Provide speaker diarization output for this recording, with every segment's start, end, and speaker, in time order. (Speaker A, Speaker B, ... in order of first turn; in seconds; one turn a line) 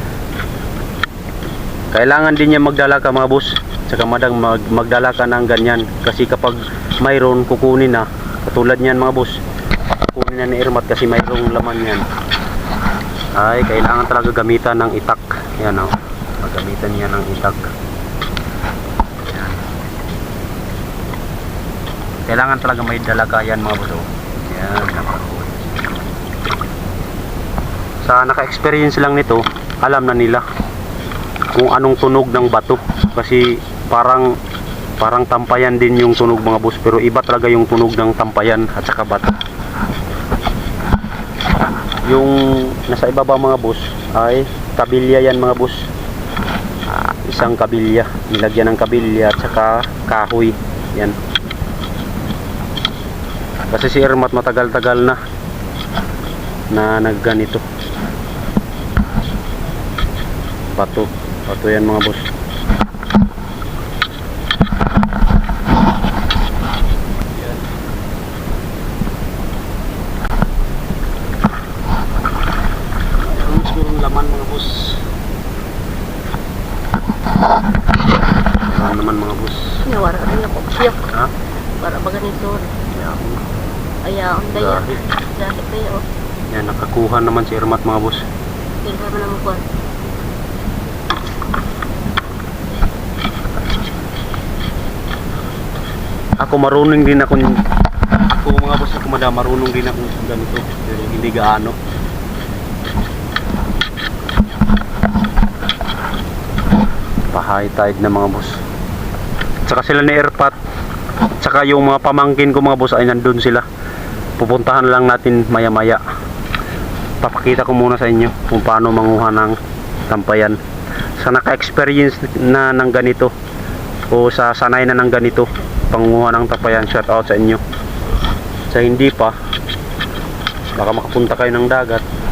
Speaker A: 1.9-9.4
Speaker A: 10.1-12.0
Speaker A: 13.3-17.7
Speaker A: 19.3-19.6
Speaker A: 22.3-25.6
Speaker A: 28.0-30.4
Speaker A: 31.5-34.3
Speaker A: 35.0-39.3
Speaker A: 42.1-45.9
Speaker A: 46.9-51.2
Speaker A: 53.7-55.2
Speaker A: 56.7-57.6
Speaker A: 60.8-62.2
Speaker A: 73.2-75.0
Speaker A: 78.6-79.8
Speaker B: 79.8-81.1
Speaker B: 81.8-82.7
Speaker A: 82.9-83.4
Speaker B: 84.0-86.0
Speaker A: 84.5-85.0
Speaker A: 86.5-88.2
Speaker B: 88.8-89.6
Speaker A: 96.4-97.6
Speaker A: 98.2-101.8
Speaker A: 107.3-108.6
Speaker A: 109.7-110.6
Speaker A: 111.4-113.6
Speaker A: 114.4-116.0
Speaker A: 117.2-119.6
Speaker A: 120.1-120.6
Speaker A: 121.2-123.3
Speaker A: 124.1-127.6
Speaker A: 128.7-129.3
Speaker A: 130.8-132.0